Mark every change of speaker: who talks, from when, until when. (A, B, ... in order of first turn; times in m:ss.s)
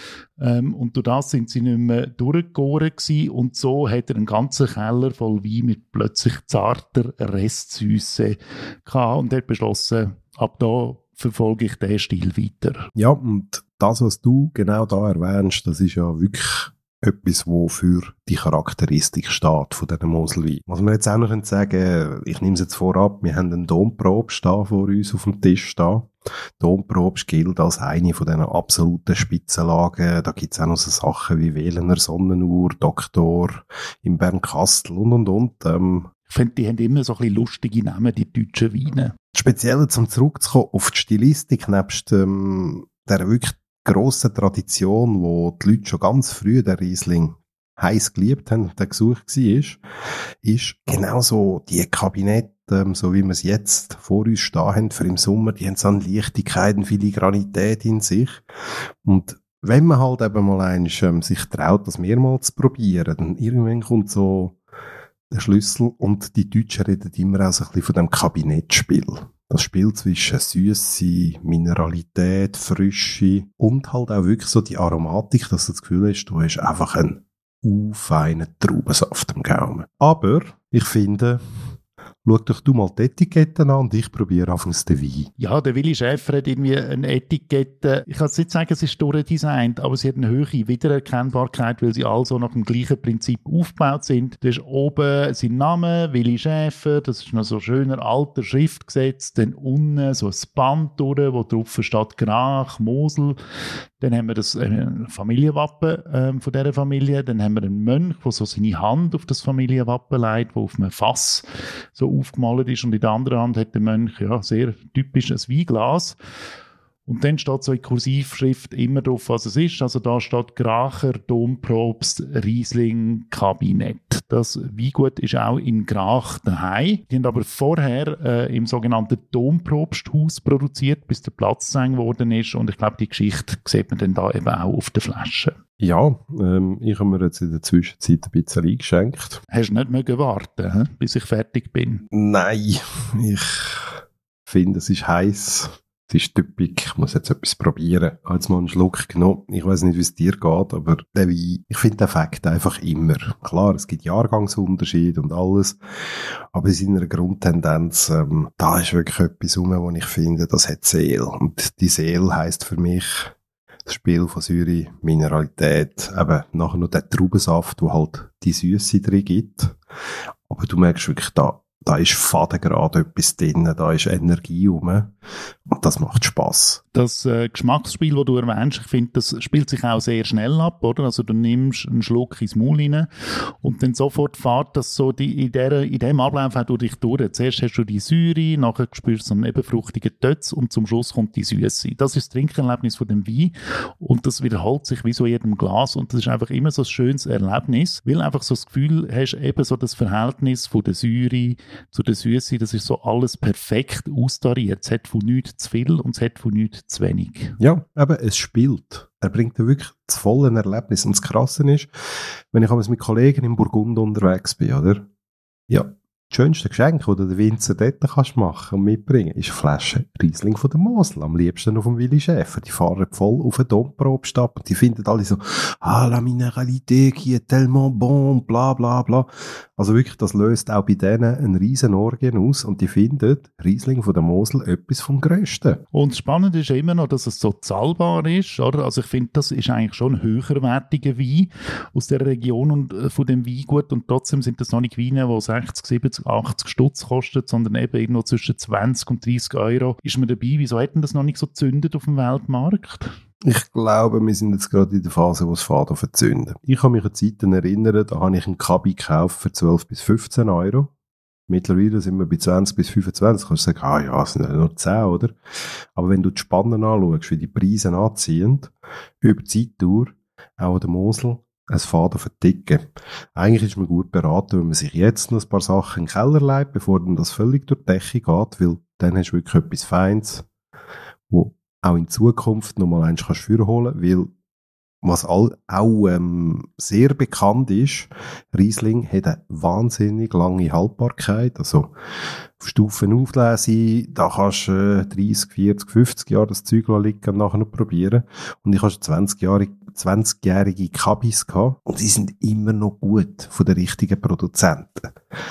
0:00.4-0:12.9 A
0:13.0-0:36.1 B
0:36.3-0:39.1 A
0:39.3-0:49.8 B
0:50.4-0:58.4 B
0:59.0-1:04.6 B
1:05.3-1:21.4 B
1:22.2-1:25.3 B
1:25.4-1:43.4 A
1:44.0-1:56.2 A
1:57.0-2:15.5 A
2:15.8-2:19.4 B
2:19.5-2:22.0 A
2:22.1-2:35.8 B
2:36.5-2:43.3 B
2:43.8-2:49.8 B
2:50.5-2:55.1 B
2:55.7-2:56.8 B
2:56.9-3:27.6 A
3:27.6-3:31.9 B
3:32.5-3:35.0 B
3:35.7-3:55.8 B
3:55.9-4:13.1 A
4:13.4-4:20.9 B
4:21.5-4:25.3 B
4:25.9-4:40.4 B
4:41.3-4:44.3 B
4:45.0-4:51.9 B
4:52.6-5:05.1 B